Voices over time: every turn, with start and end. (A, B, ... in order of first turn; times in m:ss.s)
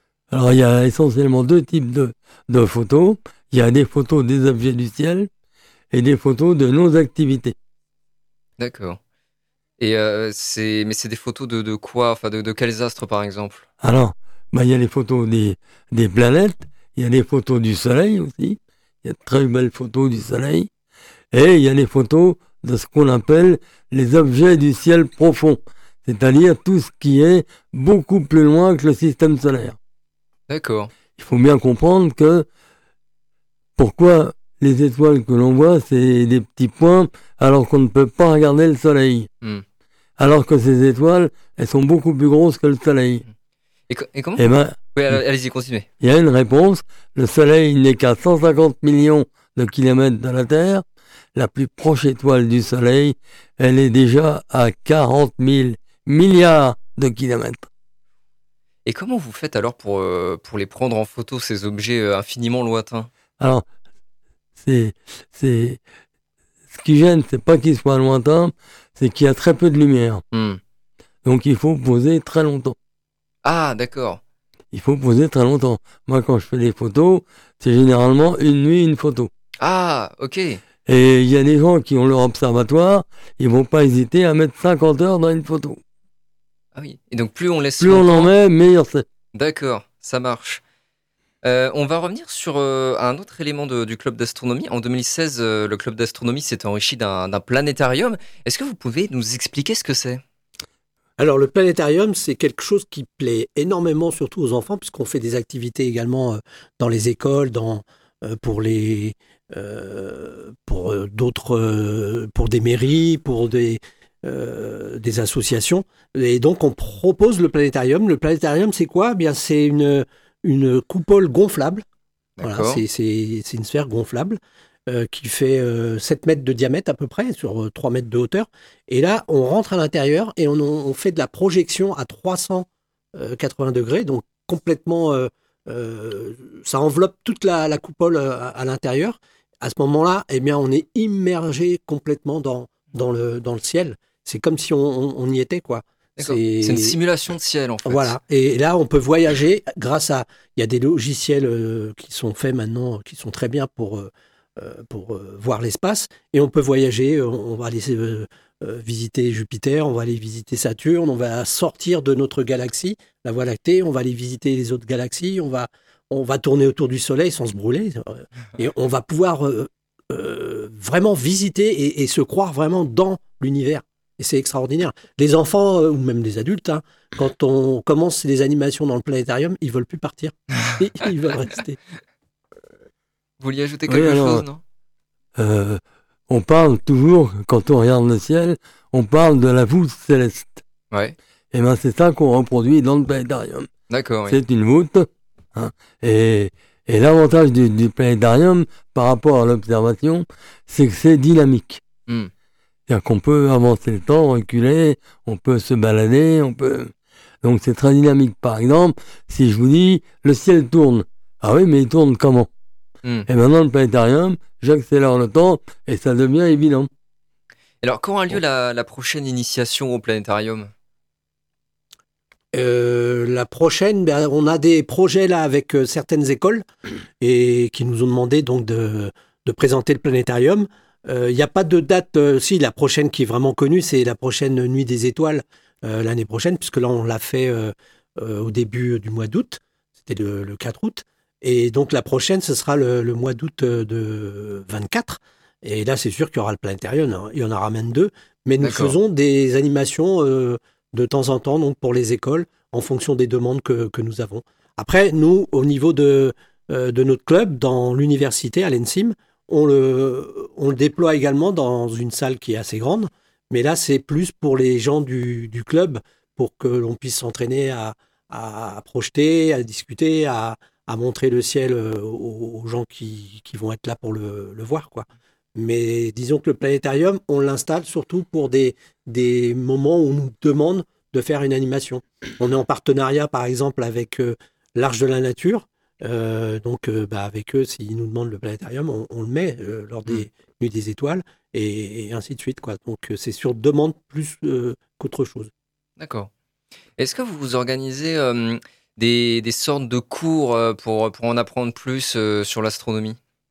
0:00.3-0:05.3 A
0:05.9-0:07.5 A
0:08.6-0:09.0 B
0:09.8-0:13.6 B
0:13.8-0:20.7 A
0:21.3-0:29.8 A
0:30.5-0:30.9 B
0:31.2-0:32.4 A
0:33.8-0:39.3 A
0:40.2-0:43.2 A
0:43.9-0:45.9 B
0:44.4-0:45.2 A
0:46.0-0:50.8 A
0:51.4-0:57.7 A
0:58.8-1:03.1 B
1:03.4-1:03.6 A
1:04.6-1:05.8 A
1:06.7-1:10.2 A
1:10.3-1:10.6 B
1:11.2-1:12.7 A
1:13.4-1:14.2 B
1:14.7-1:19.3 A
1:19.6-1:20.6 B
1:20.9-1:25.8 A
1:26.7-1:28.3 B
1:27.8-1:29.0 A
1:29.3-1:30.6 B
1:31.4-1:40.2 B
1:41.2-2:01.8 C
2:02.4-2:02.8 B
2:02.4-2:27.0 C
2:26.2-2:28.2 B
2:27.8-3:01.8 C
3:03.4-3:04.6 B
3:03.9-3:04.4 A
3:05.4-3:10.6 A
3:10.9-3:11.2 B
3:11.5-3:13.7 A
3:13.9-3:14.4 B
3:14.3-3:21.8 A
3:22.9-3:26.9 A
3:27.4-3:32.5 A
3:33.3-3:36.9 A
3:37.8-3:40.7 B
3:42.5-3:46.6 C
3:47.2-4:55.5 C
4:08.6-4:09.0 B
4:56.0-4:56.3 B
4:57.0-5:03.2 B